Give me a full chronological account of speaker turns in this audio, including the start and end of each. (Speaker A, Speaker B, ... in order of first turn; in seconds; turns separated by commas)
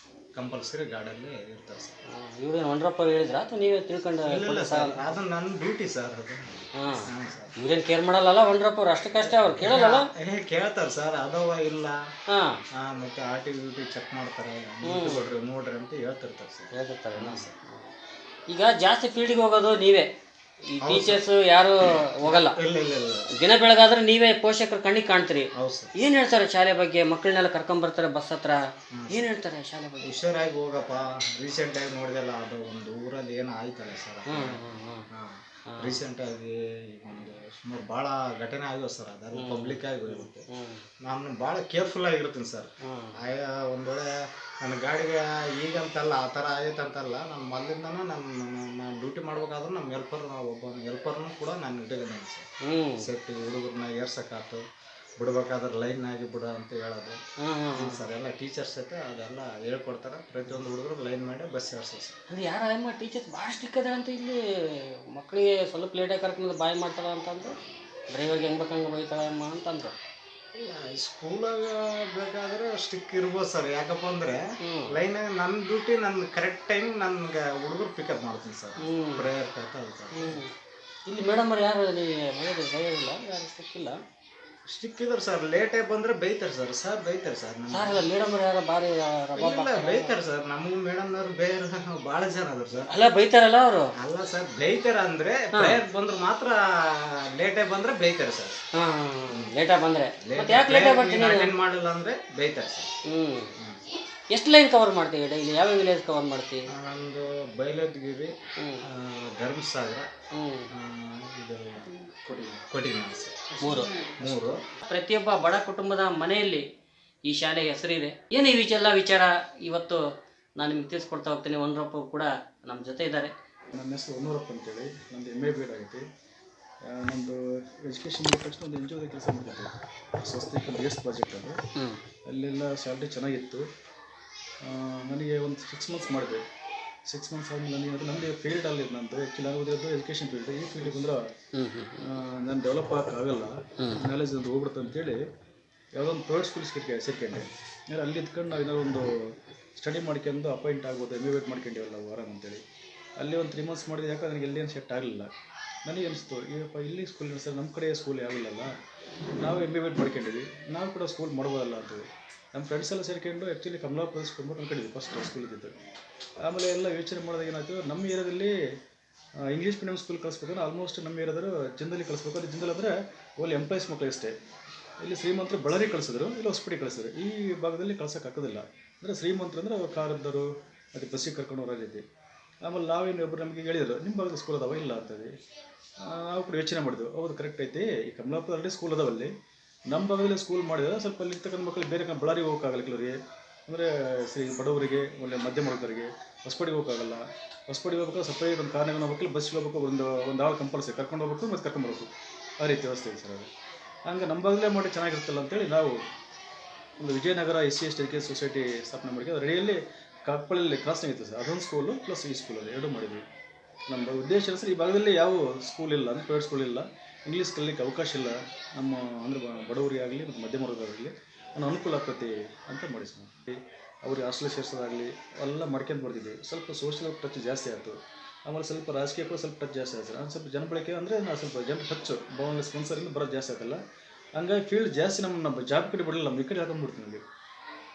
Speaker A: 0.3-2.0, Speaker B: 2.1-5.0, Speaker A: 4.2-7.5, Speaker B: 6.8-10.1, Speaker A: 9.2-12.0, Speaker B: 12.3-12.6, Speaker A: 12.8-17.5, Speaker B: 14.8-15.2, Speaker B: 16.7-17.9, Speaker B: 18.5-20.1, Speaker B: 20.7-22.6, Speaker A: 20.8-21.2, Speaker A: 22.1-23.3, Speaker B: 23.3-28.6, Speaker A: 25.5-25.9, Speaker A: 28.9-29.2, Speaker B: 29.1-30.1, Speaker A: 30.0-40.4, Speaker B: 34.3-35.1, Speaker B: 39.3-40.8, Speaker A: 41.0-44.1, Speaker B: 42.8-43.1, Speaker A: 44.6-52.5, Speaker B: 52.6-53.1, Speaker A: 53.0-54.6, Speaker A: 55.2-57.2, Speaker B: 57.4-58.0, Speaker A: 57.7-62.2, Speaker B: 62.3-67.5, Speaker B: 68.1-69.9, Speaker A: 70.5-80.4, Speaker B: 74.6-75.0, Speaker B: 78.8-79.3, Speaker B: 80.1-80.5, Speaker B: 81.0-84.0, Speaker A: 84.7-88.1, Speaker B: 87.7-90.1, Speaker A: 89.3-92.9, Speaker B: 92.9-93.9, Speaker A: 94.0-98.6, Speaker B: 95.5-95.8, Speaker B: 98.7-101.5, Speaker A: 100.2-102.9, Speaker B: 103.1-103.5, Speaker B: 104.3-106.7, Speaker A: 106.7-110.1, Speaker B: 110.3-110.7, Speaker A: 110.7-114.6, Speaker B: 113.6-116.6, Speaker B: 117.3-120.0, Speaker B: 120.6-123.3, Speaker C: 123.7-126.0, Speaker C: 126.8-131.6, Speaker C: 132.3-133.7, Speaker C: 134.6-136.4, Speaker C: 137.1-141.3, Speaker B: 141.5-142.1, Speaker C: 142.0-145.2, Speaker B: 143.8-144.1, Speaker C: 145.9-152.6, Speaker C: 153.2-155.3, Speaker C: 155.8-158.7, Speaker C: 159.4-165.7, Speaker C: 166.4-168.6, Speaker C: 169.4-174.3, Speaker C: 175.0-182.0, Speaker C: 182.6-185.3, Speaker C: 186.0-189.3, Speaker C: 189.9-203.5, Speaker C: 204.1-206.0, Speaker C: 207.0-213.2, Speaker C: 213.9-233.8, Speaker C: 234.4-237.2